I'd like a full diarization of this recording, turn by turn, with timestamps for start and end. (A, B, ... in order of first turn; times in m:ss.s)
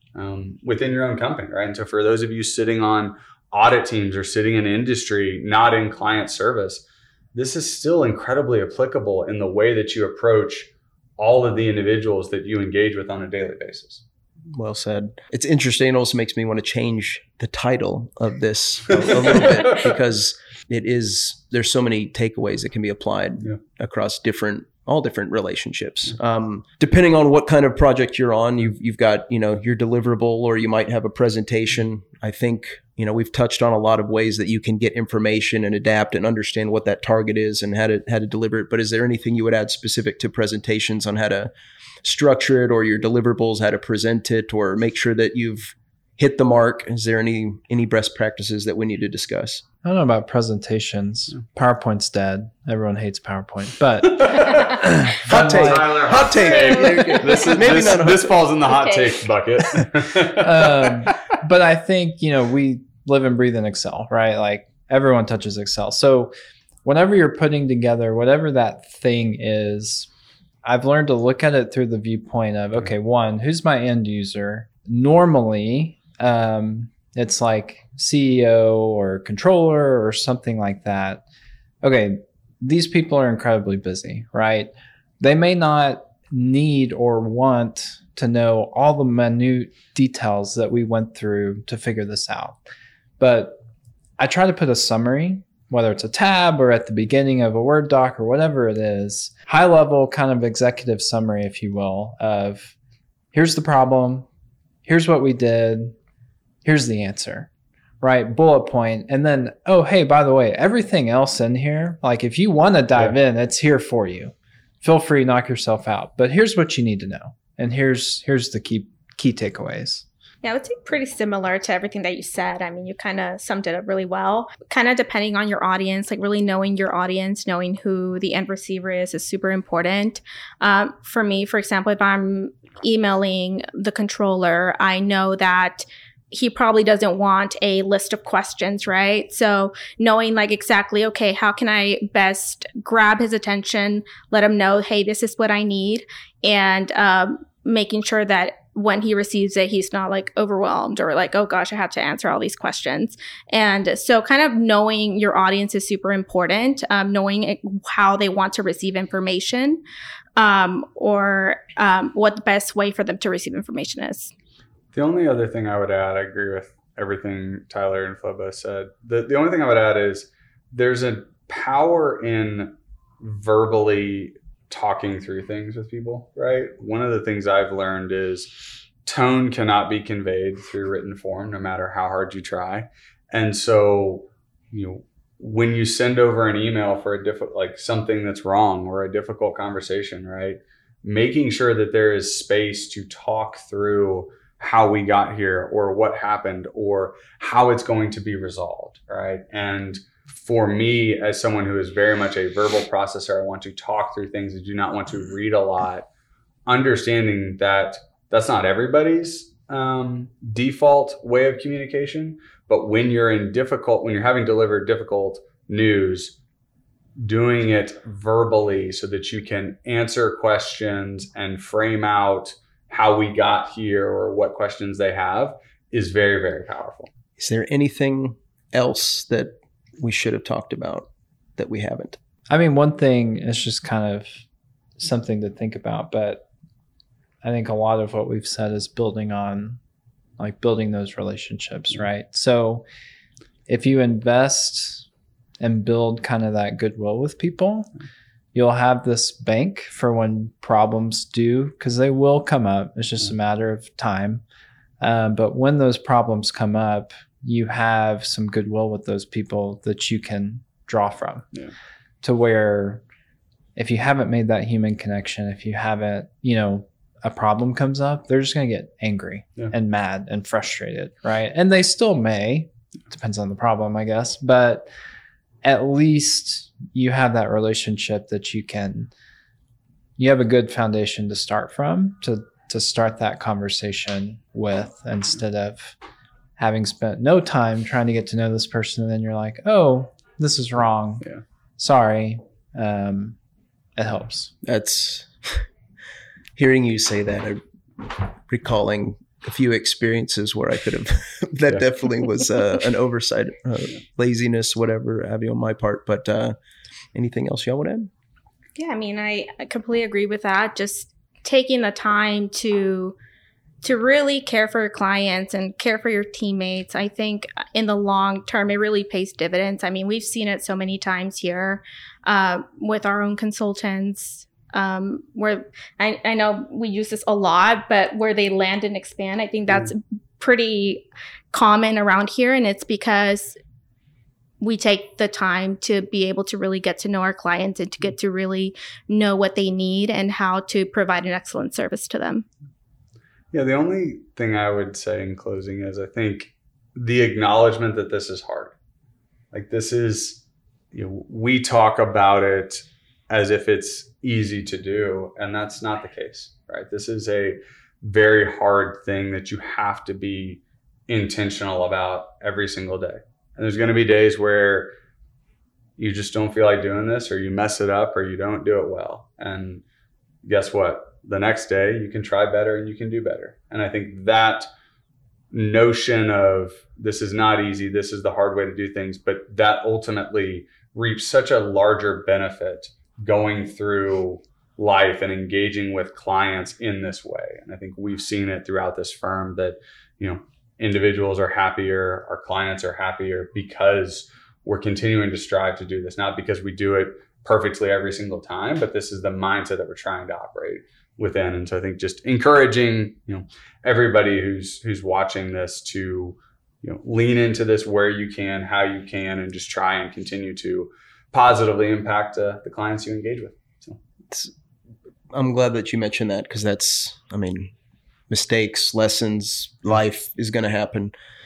0:00.2-0:14.0 A
0:14.5-0:41.5 B
0:19.2-0:19.6 A
0:42.0-0:49.6 B
0:49.8-0:56.0 C
0:54.2-1:01.1 A
0:55.2-0:58.4 B
0:56.7-0:57.4 D
0:58.7-0:59.2 D
1:00.3-1:06.3 C
1:06.8-1:10.1 C
1:10.6-1:21.2 C
1:21.8-1:32.6 C
1:33.2-1:33.6 C
1:34.2-1:42.7 C
1:43.3-1:44.3 C
1:44.9-1:45.9 C
1:46.6-1:47.5 C
1:48.0-2:00.0 C
2:00.4-2:39.8 D
2:40.4-2:44.3 D
2:44.9-2:58.5 A
2:59.0-3:26.1 A
3:26.7-3:36.4 A
3:37.2-3:47.1 A
3:47.4-3:52.2 B
3:52.5-3:54.4 C
3:55.0-3:56.4 C
3:57.4-3:59.8 C
4:00.4-4:02.8 C
4:03.7-4:05.1 C
4:05.6-4:07.9 C
4:08.5-4:14.4 C
4:15.0-4:21.5 C
4:22.2-4:23.0 C
4:23.8-4:34.9 C
4:35.6-4:39.1 C
4:40.2-4:46.0 C
4:46.6-4:53.4 C
4:54.0-4:54.5 C
4:54.6-4:55.6 B
4:56.6-5:06.6 B
5:07.1-5:08.1 B
5:08.8-5:13.2 D
5:13.8-5:33.6 D
5:34.6-5:42.5 D
5:43.5-5:48.7 A
5:49.5-5:50.4 A
5:50.9-6:04.9 A
6:06.0-6:09.8 A
6:10.4-6:14.7 A
6:15.5-6:54.0 A
6:55.3-6:57.7 B
6:58.3-7:01.1 B